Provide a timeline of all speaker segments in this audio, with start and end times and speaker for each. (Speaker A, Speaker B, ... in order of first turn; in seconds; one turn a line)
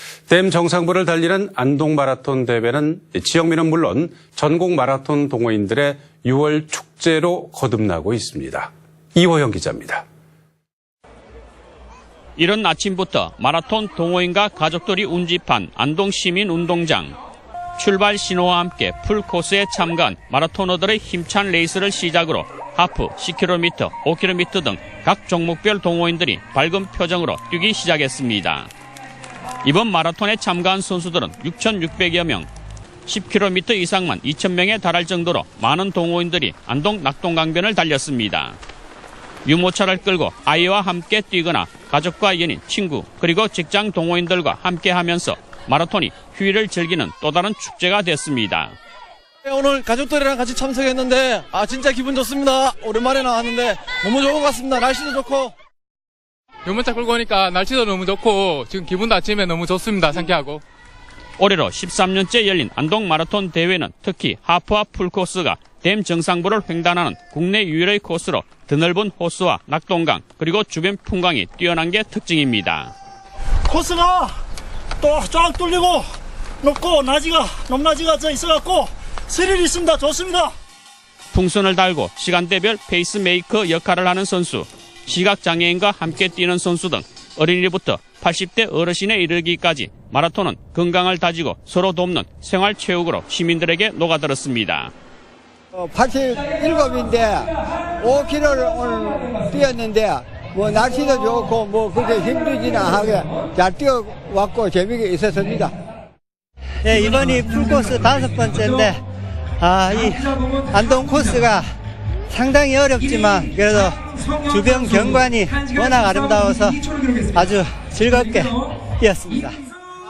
Speaker A: 0.3-10.1
Speaker B: 12.4-17.1
Speaker B: 17.8-28.7
Speaker B: 29.6-32.5
Speaker B: 33.1-38.6
Speaker B: 39.5-48.8
Speaker C: 49.5-55.5
Speaker D: 56.7-60.6
Speaker B: 61.4-72.9
Speaker E: 73.7-74.3
Speaker E: 75.0-76.0
Speaker E: 76.6-80.5
Speaker B: 81.3-94.9
Speaker F: 95.8-105.8
Speaker G: 106.8-109.0
Speaker G: 109.6-111.7
Speaker G: 112.3-119.6